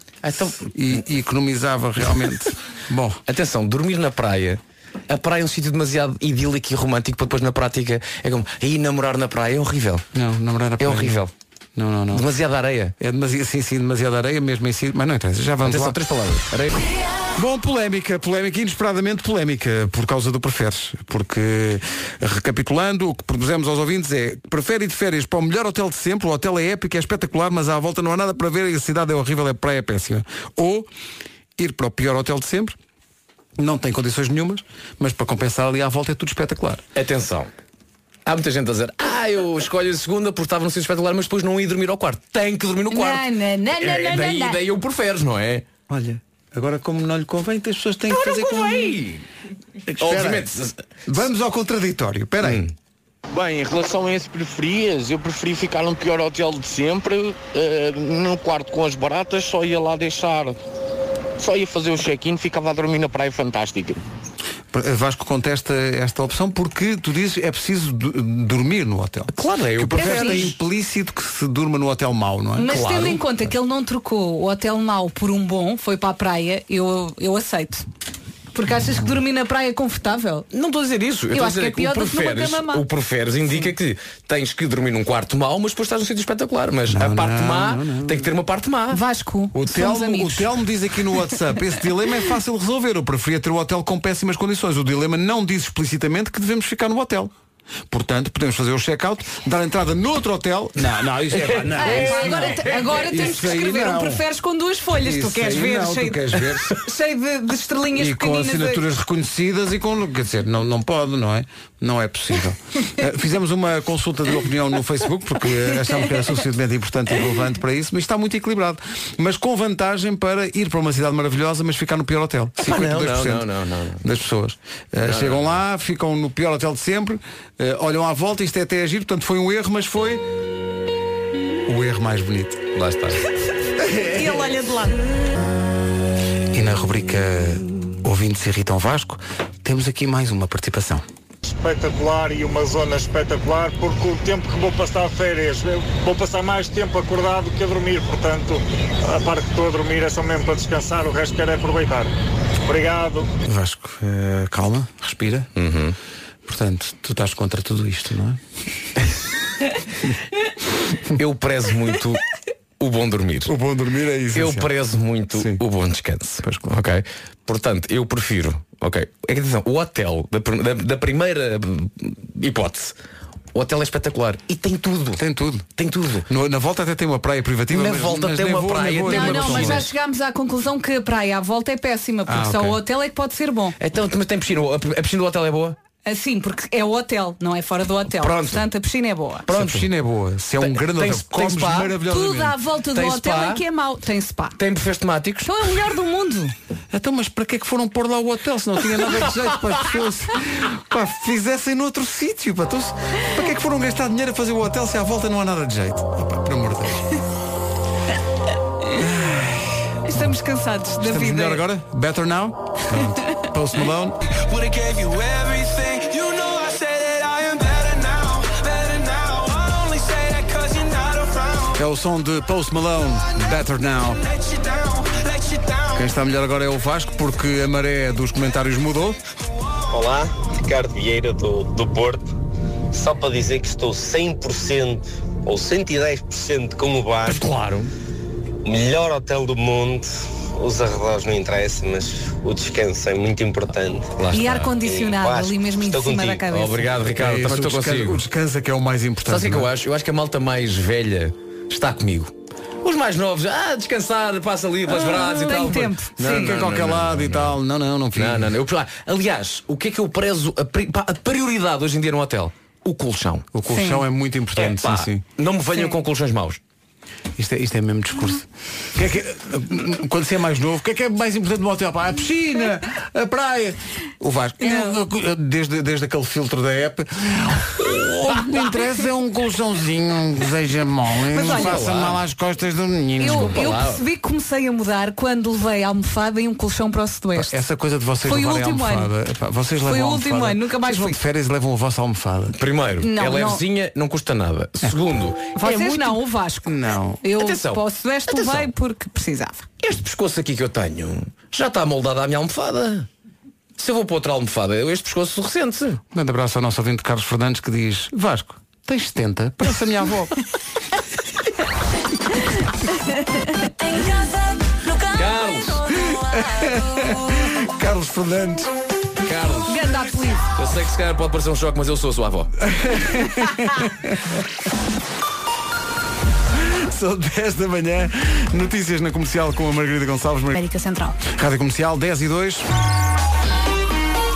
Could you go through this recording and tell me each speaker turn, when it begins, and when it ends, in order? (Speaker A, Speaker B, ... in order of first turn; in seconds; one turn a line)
Speaker A: 0.2-0.7
Speaker B: 0.6-3.2
Speaker A: 3.3-10.0
Speaker B: 10.1-11.2
Speaker A: 10.8-11.3
Speaker B: 11.8-12.3
Speaker A: 12.1-12.9
Speaker B: 13.0-16.0
Speaker A: 15.6-16.8
Speaker B: 17.3-30.9
Speaker B: 31.6-32.8
Speaker B: 33.6-36.8
Speaker A: 36.9-37.5
Speaker A: 38.2-45.7
Speaker C: 42.9-44.6
Speaker B: 45.9-49.0
Speaker A: 48.1-49.2
Speaker B: 49.9-50.5
Speaker A: 50.0-51.0
Speaker B: 51.0-52.6
Speaker A: 52.4-52.7
Speaker D: 53.3-60.6
Speaker D: 61.4-64.0
Speaker B: 64.7-72.8
Speaker A: 69.3-70.5
Speaker C: 70.0-70.5
Speaker C: 72.6-77.8
Speaker A: 72.7-73.2
Speaker C: 78.5-80.5
Speaker A: 80.5-89.0
Speaker C: 81.3-82.8
Speaker B: 86.9-88.3
Speaker C: 88.9-90.5
Speaker B: 89.5-97.3
Speaker B: 97.9-104.2
Speaker A: 101.4-102.9
Speaker C: 101.8-108.8
Speaker B: 105.0-106.7
Speaker B: 107.9-123.5
Speaker A: 122.6-124.0
Speaker B: 124.0-130.2
Speaker A: 125.0-125.6
Speaker B: 131.7-132.6
Speaker A: 132.7-133.2
Speaker B: 133.9-134.5
Speaker C: 134.1-134.9
Speaker B: 136.5-141.0
Speaker E: 141.4-152.1
Speaker E: 152.7-153.3
Speaker B: 153.4-155.5
Speaker A: 155.6-155.9
Speaker B: 156.4-158.4
Speaker A: 161.2-162.2
Speaker A: 162.8-163.5
Speaker B: 163.5-164.7
Speaker A: 164.3-172.9
Speaker B: 165.3-165.6
Speaker A: 173.5-175.2
Speaker B: 175.2-175.7
Speaker A: 175.8-176.2
Speaker B: 176.2-179.9
Speaker A: 177.7-179.9
Speaker C: 179.1-183.8
Speaker B: 182.3-182.8
Speaker A: 183.8-185.8
Speaker C: 186.0-189.5
Speaker A: 188.2-188.7
Speaker A: 189.4-189.9
Speaker B: 189.5-192.6
Speaker A: 190.6-192.0
Speaker C: 192.1-194.6
Speaker A: 192.9-193.6
Speaker A: 194.6-195.5
Speaker C: 195.4-196.5
Speaker B: 196.9-207.1
Speaker B: 208.9-209.7
Speaker C: 210.0-211.6
Speaker B: 211.0-214.2
Speaker B: 221.7-224.2
Speaker B: 225.9-229.2
Speaker F: 229.9-232.2
Speaker F: 232.9-237.4
Speaker A: 237.3-237.9
Speaker F: 238.6-244.2
Speaker A: 244.2-244.8
Speaker C: 244.3-246.9
Speaker F: 244.8-246.5
Speaker A: 246.4-248.2
Speaker B: 247.2-249.7
Speaker A: 249.2-257.6
Speaker C: 254.9-256.6
Speaker B: 256.1-258.5
Speaker A: 258.1-263.5
Speaker B: 263.5-265.2
Speaker C: 263.7-264.0
Speaker A: 264.6-266.6
Speaker B: 267.4-283.6
Speaker C: 274.6-274.9
Speaker C: 281.3-281.8
Speaker A: 281.4-282.2
Speaker C: 283.2-287.5
Speaker A: 283.3-284.0
Speaker B: 287.3-292.6
Speaker C: 288.2-289.1
Speaker C: 289.9-291.2
Speaker A: 292.5-296.1
Speaker C: 293.0-293.6
Speaker C: 295.6-296.7
Speaker B: 296.6-297.2
Speaker C: 297.2-299.6
Speaker A: 297.3-298.7
Speaker A: 299.8-303.1
Speaker A: 303.8-306.0
Speaker B: 306.1-310.3
Speaker A: 315.1-315.8
Speaker B: 316.2-318.7
Speaker A: 319.2-319.8
Speaker C: 319.6-320.5
Speaker A: 320.5-322.5
Speaker B: 322.7-324.1
Speaker B: 326.6-330.6
Speaker B: 331.2-332.6